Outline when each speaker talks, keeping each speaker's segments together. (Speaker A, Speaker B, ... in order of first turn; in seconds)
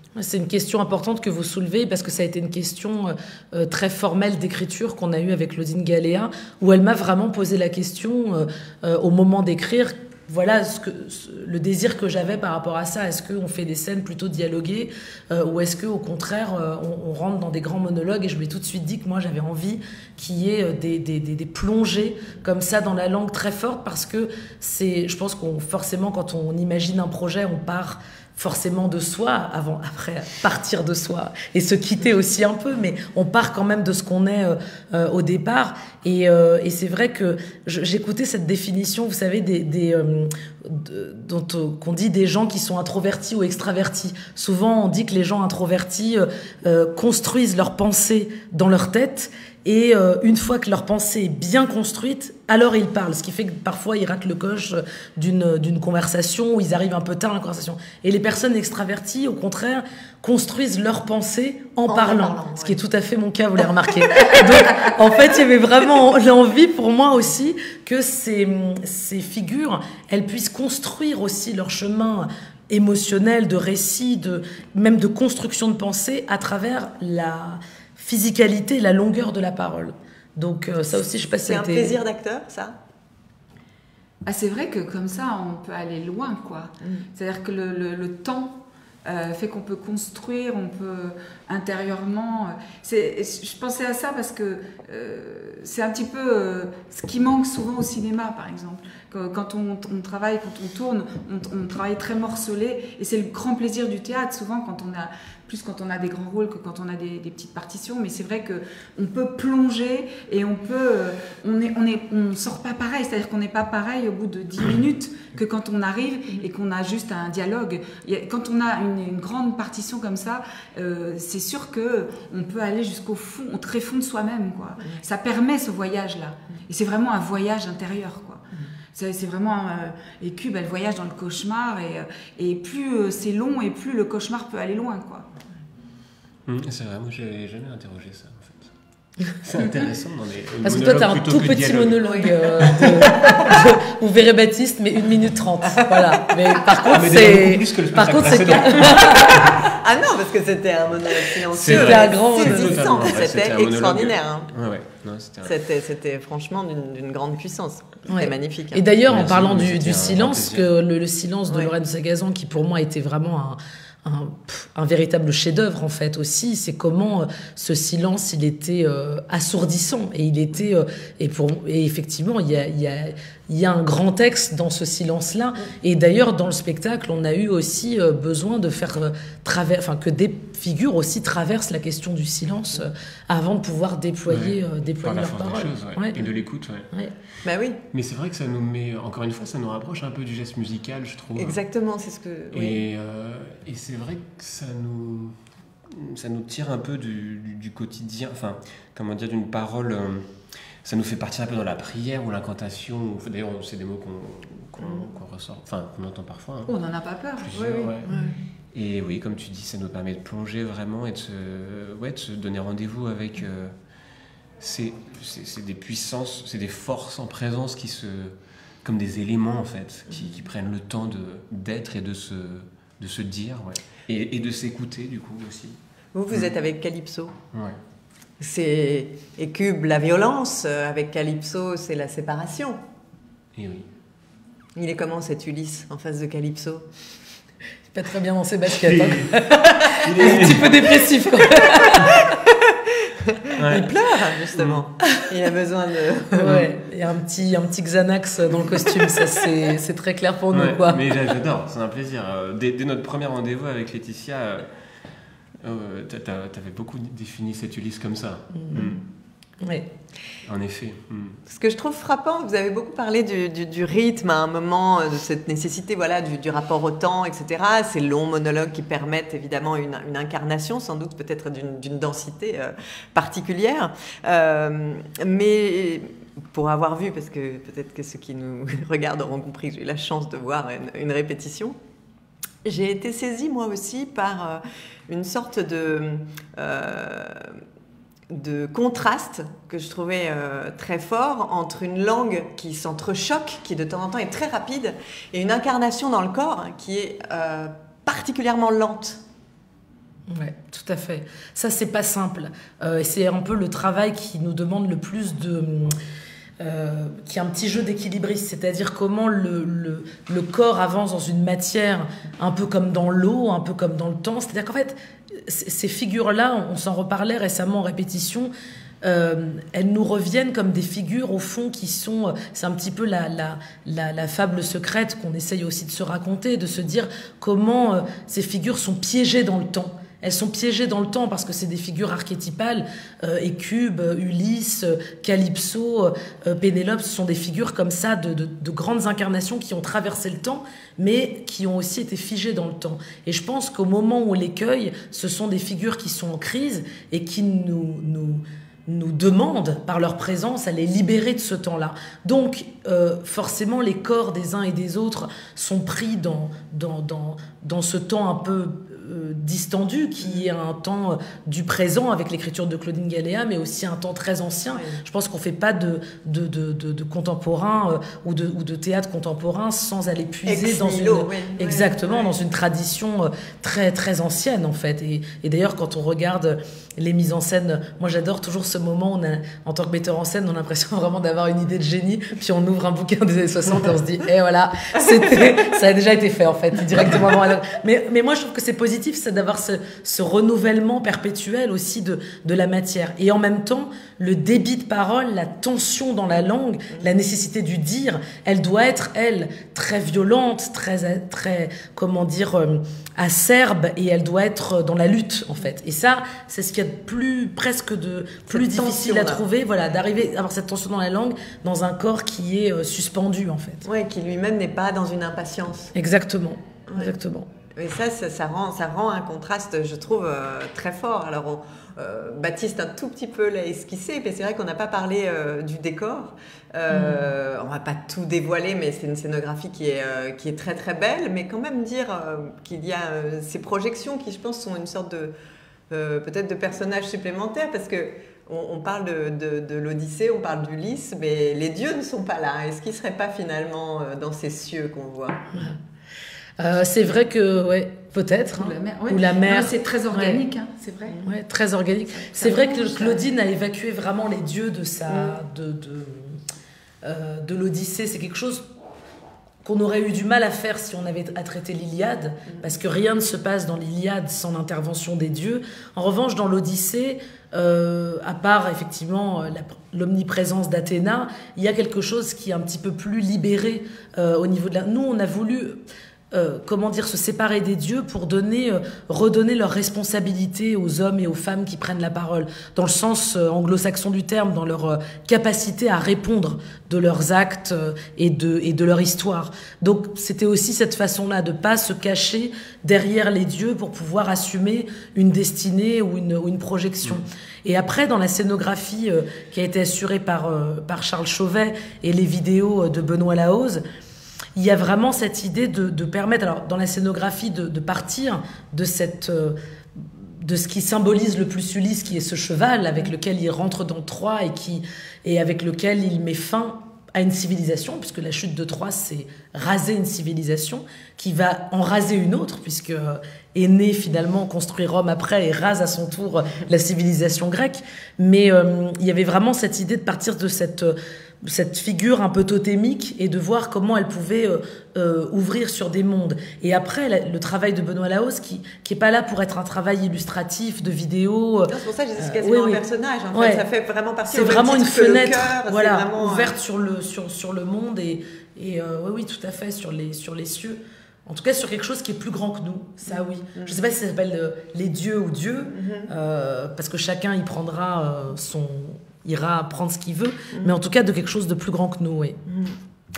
Speaker A: 0.2-82.0, 140.6-149.6, 151.6-152.8, 158.1-186.3, 237.9-242.3, 246.4-251.1, 258.6-258.9, 259.6-259.9, 300.3-306.0, 306.6-318.5, 319.0-413.8, 415.9-417.5, 426.9-427.3, 446.6-450.4, 451.2-456.4, 457.0-458.6, 459.6-475.8, 476.3-503.8, 504.6-542.8, 543.3-543.6, 544.3-562.4
Speaker B: 61.9-62.8, 81.2-82.8, 142.0-142.3, 149.3-154.5, 155.4-158.9, 187.4-187.8, 191.4-192.8, 207.5-208.4, 226.2-227.3, 228.4-232.8, 234.8-236.9, 242.2-246.6, 261.5-281.8, 282.6-287.6, 288.3-299.2, 364.7-365.0, 370.5-372.4, 408.5-409.4, 413.8-415.9, 416.9-417.1, 417.8-435.3, 435.9-445.5, 541.7-546.5, 555.7-556.1, 562.5-562.8
Speaker C: 84.2-135.3, 206.7-207.9, 448.6-451.2, 452.2-453.3
Speaker D: 136.5-138.7, 139.3-143.5, 146.8-149.7, 151.5-155.6, 159.1-160.7, 184.3-186.9, 187.9-191.6, 192.5-200.3, 200.8-206.8, 207.4-208.1, 208.7-213.7, 214.6-225.8, 233.6-233.9, 238.8-241.1, 243.6-244.0, 244.6-244.8, 246.4-246.7, 250.5-254.7, 255.6-259.0, 260.4-261.4